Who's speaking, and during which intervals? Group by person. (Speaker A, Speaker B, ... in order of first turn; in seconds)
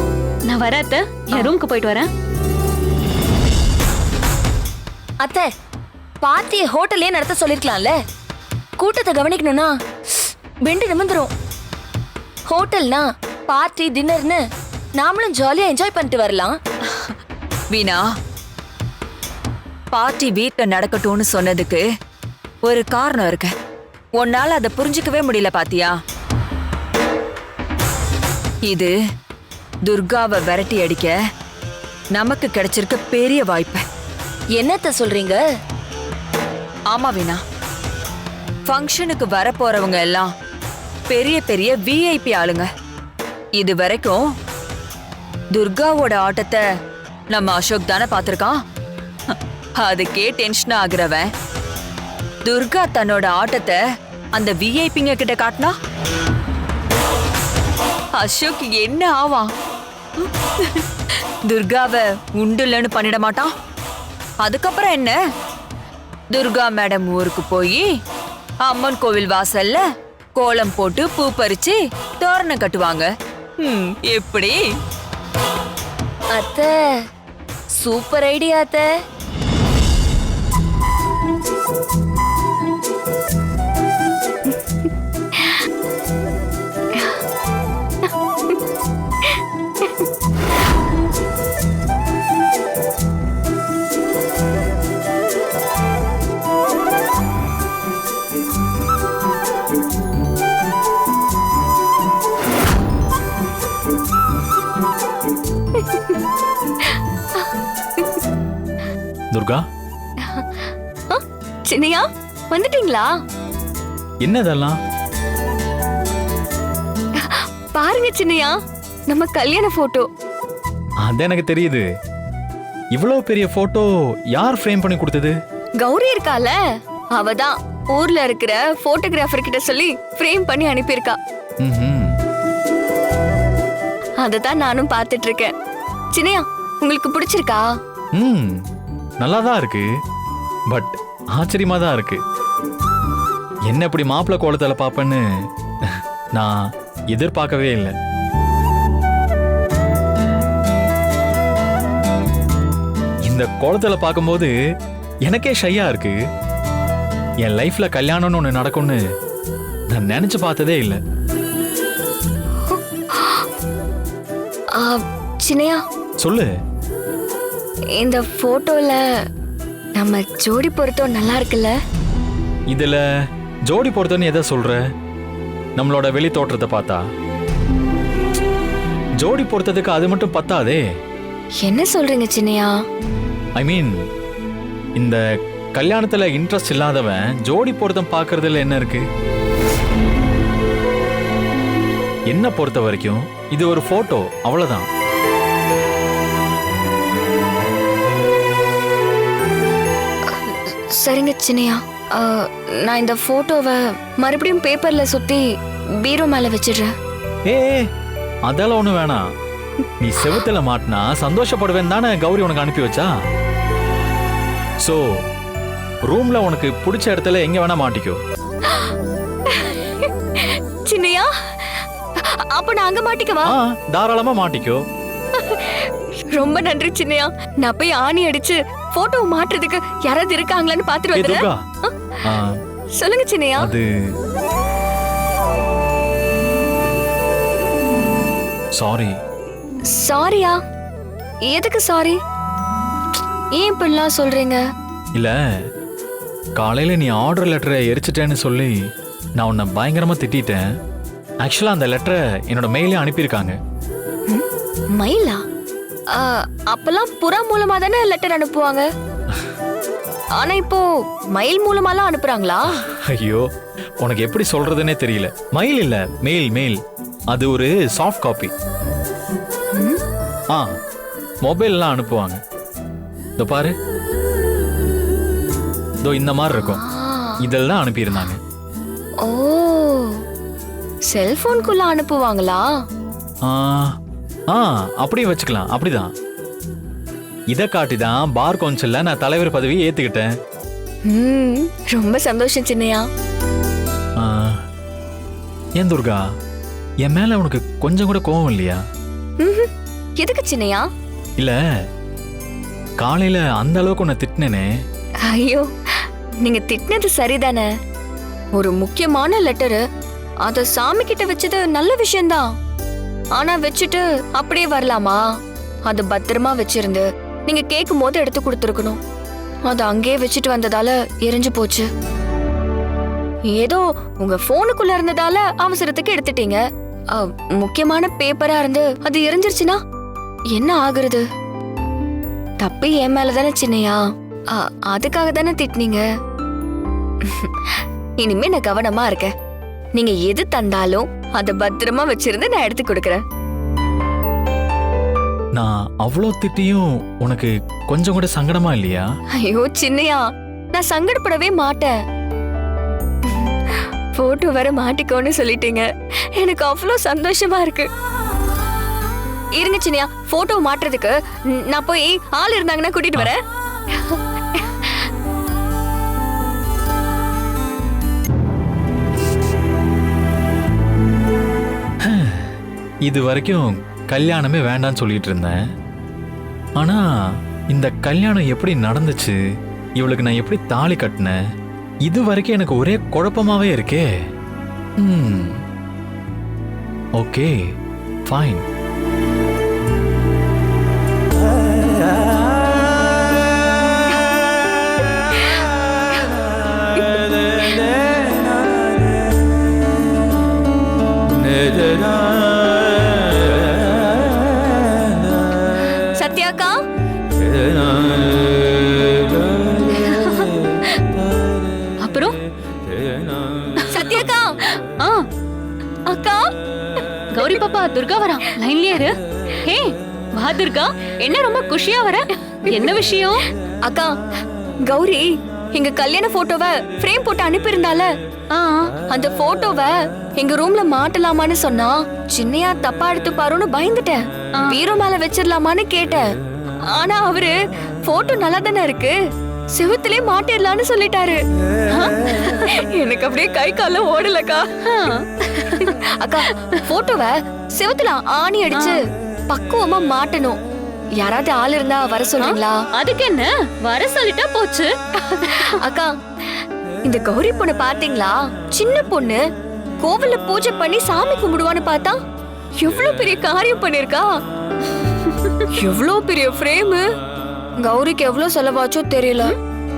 Speaker A: 0.5-2.1, 409.9-410.5, 412.0-412.3, 413.8-414.2, 417.3-419.1, 419.6-423.5, 428.5-428.9, 441.9-442.6, 444.9-445.9, 448.7-449.0, 452.4-454.9, 455.5-455.7, 465.2-465.7
Speaker B: 5.2-5.5, 6.2-8.0, 8.8-9.8, 10.6-11.3, 12.5-14.4, 15.0-16.6, 34.6-35.4, 76.3-76.7, 78.3-78.6
Speaker C: 17.7-18.0, 19.9-21.9, 22.6-23.5, 24.2-25.9, 28.7-28.9, 29.9-31.1, 32.1-33.8, 36.9-37.4, 38.7-40.3, 41.1-42.7, 43.6-44.2, 45.5-46.6, 47.3-48.6, 49.3-51.3, 52.5-53.8, 54.4-55.7, 58.1-59.5, 60.2-63.5, 64.4-65.2, 66.3-67.8, 68.6-69.8, 70.4-73.1, 73.8-74.6, 77.8-78.8
Speaker D: 84.5-85.6, 86.9-87.2, 88.0-88.6, 89.2-90.0, 105.7-106.2, 106.8-108.2, 110.2-113.1, 117.2-118.6, 119.1-120.1, 125.8-126.6, 127.2-131.2, 134.2-135.5, 136.1-137.7, 162.6-163.5, 164.7-165.8, 168.0-169.0, 170.0-171.7, 181.6-182.7, 200.3-205.4, 206.0-206.9, 209.8-210.4, 218.7-218.9, 219.5-223.5, 225.3-232.3, 233.0-233.7, 239.9-240.6, 241.5-242.2, 243.6-244.6, 254.3-255.4, 256.1-258.9, 260.4-262.8, 269.7-270.0, 276.5-277.4, 279.2-280.2, 281.1-282.6, 291.1-293.1, 299.4-300.9, 305.2-307.7, 308.6-309.8, 310.4-312.5, 313.4-315.3, 315.9-319.0, 319.7-321.9, 323.5-329.8, 330.5-331.2, 332.6-336.1, 337.2-339.3, 339.9-343.2, 349.4-351.9, 353.2-355.9, 356.4-357.9, 359.6-364.9, 397.0-397.8, 406.2-406.8, 413.9-414.6, 416.1-416.5, 423.9-424.1, 424.9-428.1, 429.1-436.3, 436.9-439.1, 439.7-441.4, 442.6-444.7, 445.8-450.6, 451.2-452.8, 455.3-456.1, 457.1-459.4, 460.0-462.2, 462.8-464.4, 465.7-467.0, 467.8-469.6
Speaker E: 109.3-109.7, 114.2-114.8, 121.0-121.9, 122.9-125.4, 131.6-132.2, 138.2-138.6, 139.2-139.9, 140.7-142.2, 143.7-145.2, 145.8-147.9, 153.3-154.5, 155.2-156.2, 157.4-159.0, 159.9-161.0, 166.2-166.5, 172.7-173.0, 173.7-174.8, 175.8-177.0, 179.2-180.8, 183.6-184.0, 185.8-189.1, 192.3-194.9, 207.5-207.9, 208.5-209.3, 210.0-213.1, 214.8-215.1, 216.1-218.2, 223.5-224.8, 231.1-231.6, 232.2-232.6, 233.6-233.9, 238.8-239.1, 245.2-245.6, 246.6-248.8, 249.4-250.7, 251.4-253.6, 262.8-263.5, 264.0-266.8, 267.3-268.5, 270.5-270.8, 271.4-272.4, 273.4-273.8, 276.0-276.8, 277.4-278.4, 283.4-284.0, 284.5-286.1, 287.5-290.3, 294.2-294.6, 295.8-296.2, 297.0-298.8, 303.0-304.7, 345.6-349.1, 372.0-375.6, 376.8-377.1, 377.7-379.4, 380.0-381.4, 382.1-384.1, 385.0-385.6, 387.2-387.6, 388.3-388.6